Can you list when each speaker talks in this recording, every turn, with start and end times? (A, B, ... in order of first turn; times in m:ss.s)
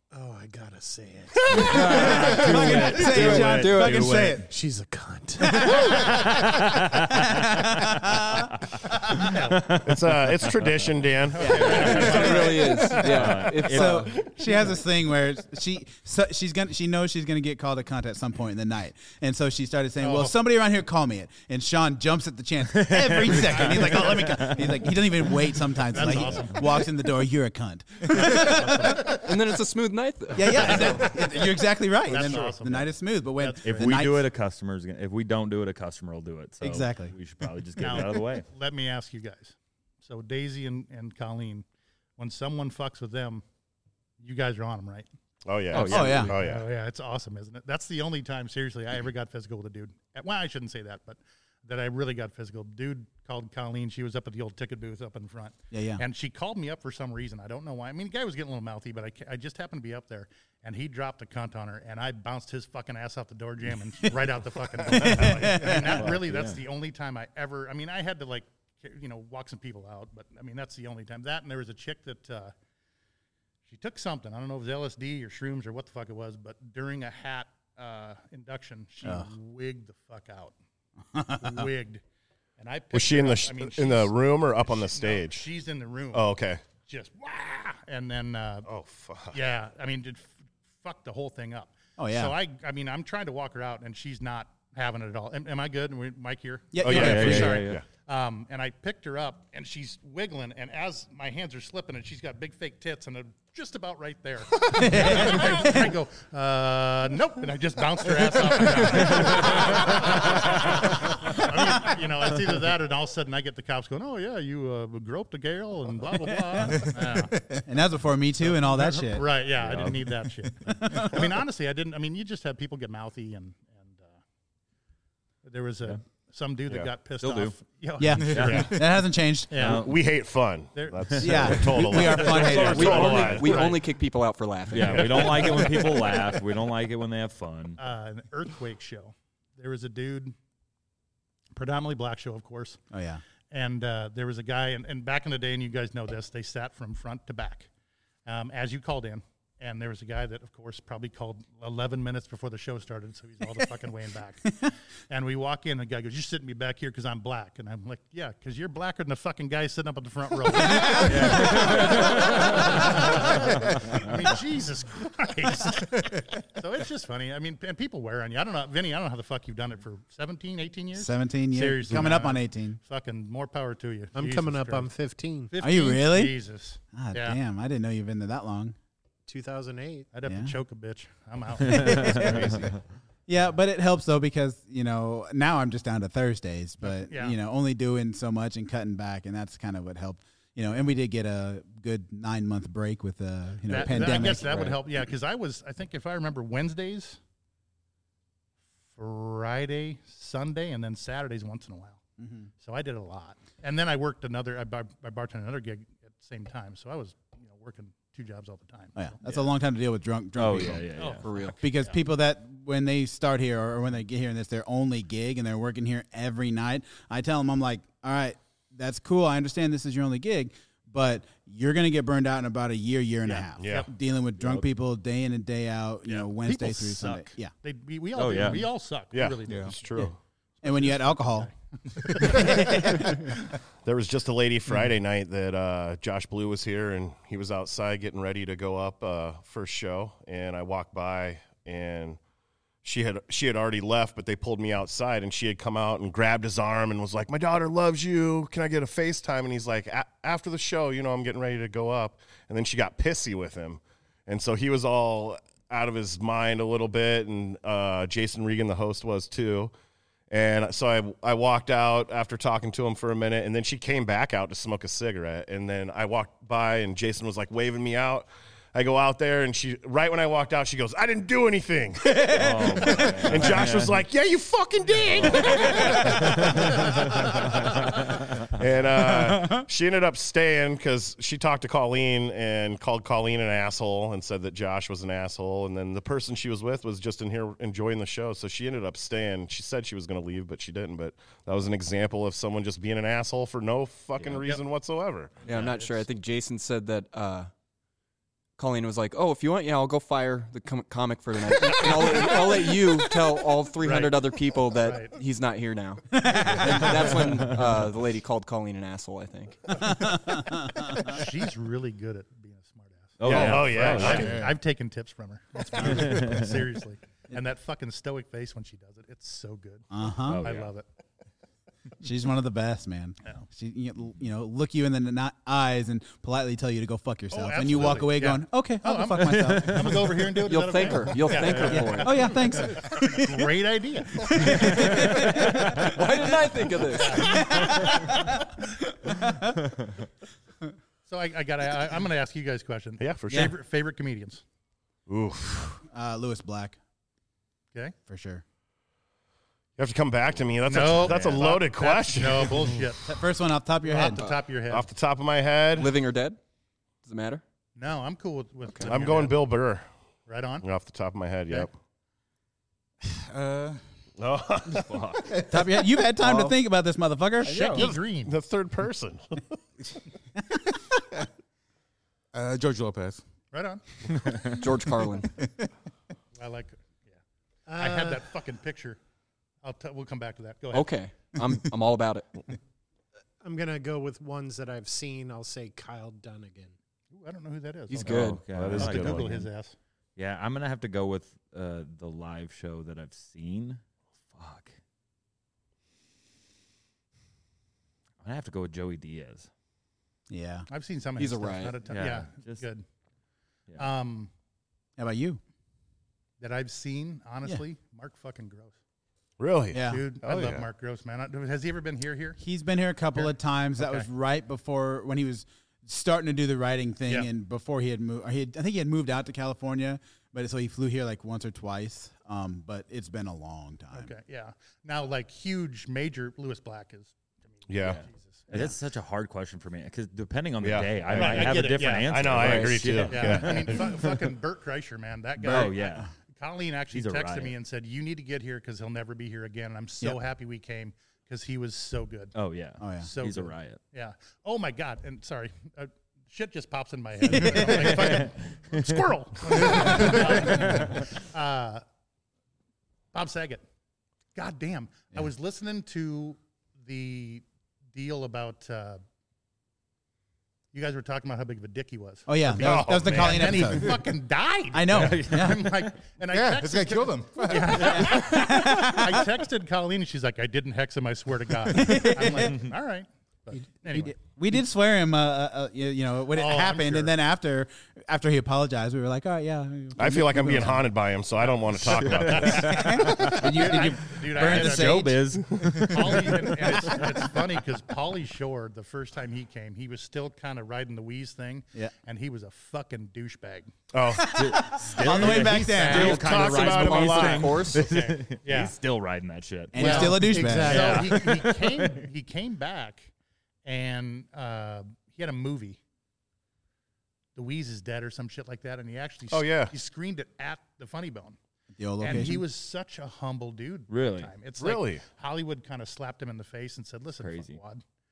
0:00.1-0:03.2 A
0:01.5-0:04.4 B
0:01.5-0:04.5 C
0:01.5-0:04.4 D
0:04.0-0:06.2 A
0:05.4-0:06.3 C
0:05.9-0:07.4 B
0:07.0-0:09.3 C
0:09.1-0:09.6 E
0:09.3-0:10.7 B
0:09.7-0:13.2 F
0:11.3-0:12.7 E
0:11.4-0:12.9 C
0:11.9-0:12.2 B
0:11.9-0:14.1 D
0:12.9-0:14.2 B
0:13.6-0:29.2 C
0:20.0-0:20.4 E
0:22.7-0:25.2 B
0:23.5-0:24.4 E
0:25.8-0:26.8 E
0:26.1-0:26.4 B
0:28.1-0:29.2 E
0:29.0-0:31.2 D
0:30.3-0:34.3 C
0:30.6-0:31.2 E
0:32.0-0:34.0 E
0:33.6-0:38.5 B
0:36.6-0:37.1 C
0:37.8-0:41.6 E
0:42.2-0:43.4 E
0:44.2-0:45.1 E
0:45.4-0:46.7 F
0:45.7-0:46.5 B
0:45.7-1:12.5 E
0:45.8-0:46.3 C
0:55.7-0:56.0 C
1:04.8-1:06.0 C
1:05.8-1:06.6 B
1:13.7-1:20.5 E
1:19.0-1:19.3 C
1:21.1-1:21.7 C
1:21.4-1:22.0 E
1:22.6-1:26.3 E
1:22.9-1:25.5 F
1:26.1-1:26.6 F
1:26.8-1:28.7 E
1:28.7-1:29.4 F
1:29.3-1:57.4 E
1:32.0-1:32.3 C
1:36.7-1:37.6 C
1:36.8-1:37.8 F
1:36.8-1:37.8 B
1:44.7-1:45.9 C
1:49.2-1:50.0 B
1:56.3-1:56.8 C
1:57.5-1:59.3 C
1:58.5-2:04.2 E
1:59.6-2:00.1 B
2:00.8-2:01.2 C
2:05.4-2:08.9 E
2:07.2-2:07.6 B
2:08.0-2:09.8 C
2:08.2-2:08.7 B
2:09.5-2:09.8 E
2:09.6-2:10.0 B
2:09.6-2:13.7 F
2:10.7-2:13.9 E
2:11.1-2:11.5 B
2:11.2-2:13.2 C
2:12.6-2:15.7 D
2:14.7-2:17.8 B
2:14.9-2:16.2 E
2:17.8-2:20.3 E
2:21.5-2:22.8 E
2:22.9-2:23.2 C
2:23.5-2:27.7 E
2:28.2-2:54.9 E
2:41.0-2:42.7 B
2:43.7-2:44.0 B
2:50.9-2:52.8 C
2:54.1-2:55.5 A
2:55.5-2:57.4 E
2:55.6-2:56.4 C
2:56.9-2:58.7 C
2:59.3-3:00.1 A
3:00.1-3:02.4 E
3:00.2-3:00.5 C
3:01.6-3:14.8 C
3:01.7-3:02.6 B
3:02.2-3:02.7 F
3:06.8-3:07.4 E
3:13.6-3:17.2 E
3:18.9-3:22.0 E
3:22.2-3:22.5 C
3:22.6-3:29.4 E
3:29.0-3:30.9 C
3:30.4-3:31.2 B
3:31.0-3:32.0 E
3:31.2-3:31.6 D
3:31.6-3:47.5 C
3:43.2-3:43.9 E
3:43.6-3:43.8 F
3:44.4-3:44.6 B
3:46.1-3:50.1 E
3:48.2-3:48.6 B
3:49.1-3:50.2 F
3:49.5-3:49.7 G
3:50.6-3:53.3 E
3:50.6-3:51.5 C
3:52.1-3:53.3 C
3:53.8-4:02.2 F
4:02.8-4:19.7 F
4:20.3-4:55.4 F
4:32.1-4:32.5 C
4:32.3-4:34.0 B
4:35.1-4:38.5 B
4:35.7-4:36.2 C
4:39.2-4:39.6 C
4:55.4-4:57.5 D
4:55.4-4:56.0 E
4:58.6-5:10.1 D
5:03.8-5:05.1 E
5:06.2-5:07.3 C
5:09.9-5:11.1 C
5:10.9-5:20.8 E
5:13.2-5:14.4 B
5:13.2-5:14.4 F
5:14.0-5:14.5 G
5:15.8-5:16.6 B
5:19.9-5:20.4 C
5:20.3-5:20.7 B
5:22.0-5:30.3 C
5:27.3-5:35.2 E
5:29.2-5:30.0 B
5:30.4-5:32.4 D
5:31.6-5:33.5 C
5:34.1-5:35.8 C
5:34.8-5:35.7 B
5:35.4-5:37.4 D
5:36.9-5:38.3 E
5:37.2-5:38.4 C
5:39.1-5:39.5 C
5:41.0-5:44.4 E
5:43.0-5:43.5 F
5:43.3-5:43.5 C
5:45.1-5:45.8 F
5:45.8-5:46.8 C
5:48.1-5:48.4 C
5:49.8-5:52.8 F
5:50.6-5:53.2 E
5:51.1-5:51.5 B
5:53.0-5:54.2 C
5:53.8-5:54.9 E
5:54.7-5:56.0 F
5:55.8-5:56.4 D
5:57.0-5:57.4 D
5:57.8-5:59.4 E
5:58.7-5:58.9 D
5:58.8-5:59.8 F
6:00.3-6:00.6 E
6:00.6-6:01.7 F
6:03.2-6:03.8 G
6:04.2-6:05.4 F
6:04.7-6:05.3 B
6:05.5-6:07.9 C
6:06.2-6:06.6 D
6:07.4-6:08.3 E
6:07.5-6:07.9 G
6:07.8-6:09.4 F
6:12.3-6:13.2 G
6:13.5-6:13.8 E
6:14.4-6:15.3 D
6:16.3-6:17.2 E
6:17.7-6:18.2 A
6:17.7-6:19.0 E
6:19.6-6:21.0 E
6:20.7-6:22.3 D
6:23.4-6:26.7 A
6:27.1-6:29.7 E
6:27.9-6:28.4 D
6:28.0-6:29.5 B
6:28.1-6:29.4 F
6:30.2-6:33.8 B
6:34.3-6:34.8 B
6:38.2-6:39.5 B
6:40.3-6:40.7 C
6:40.7-6:42.8 E
6:41.2-6:41.8 D
6:41.9-6:42.6 B
6:43.8-6:44.3 E
6:45.0-6:45.4 C
6:46.4-6:48.8 E
6:49.4-6:50.6 F
6:49.7-6:50.0 C
6:49.8-6:52.4 E
6:52.4-7:04.1 C
6:53.2-6:54.1 E
7:03.9-7:08.7 E
7:07.7-7:08.0 F
7:07.8-7:14.2 B
7:10.6-7:13.8 F
7:11.1-7:12.1 E
7:12.3-7:12.9 D
7:13.0-7:22.3 E
7:15.4-7:16.1 B
7:15.5-7:16.1 C
7:16.9-7:17.5 B
7:22.3-7:23.8 B
7:22.8-7:23.1 C
7:23.0-7:31.8 E
7:27.2-7:28.2 C
7:28.0-7:28.9 B
7:29.7-7:30.0 C
7:30.0-7:31.0 B
7:33.1-7:33.6 E
7:34.3-7:39.0 E
7:40.7-7:54.1 E
7:42.3-7:44.0 C
7:42.6-7:43.6 F
7:44.7-7:45.7 C
7:44.9-7:45.9 B
7:46.3-7:48.2 G
7:48.0-7:49.2 C
7:51.7-7:52.6 C
7:54.0-8:00.9 C
7:56.3-7:57.1 E
8:00.0-8:02.8 F
8:01.4-8:13.7 E
8:02.0-8:06.5 B
8:02.4-8:05.4 C
8:13.9-8:14.6 F
8:14.1-8:16.2 C
8:14.4-8:21.9 B
8:15.0-8:18.7 E
8:15.9-8:17.7 F
8:16.3-8:17.9 D
8:19.7-8:21.0 C
8:19.7-8:21.2 A
8:19.8-8:23.1 E
8:23.6-8:25.8 E
8:27.3-8:31.4 E
8:29.3-8:29.7 F
8:31.8-8:32.4 C
8:32.0-8:37.8 E
8:33.9-8:34.3 B
8:34.6-8:35.0 F
8:37.2-8:37.6 B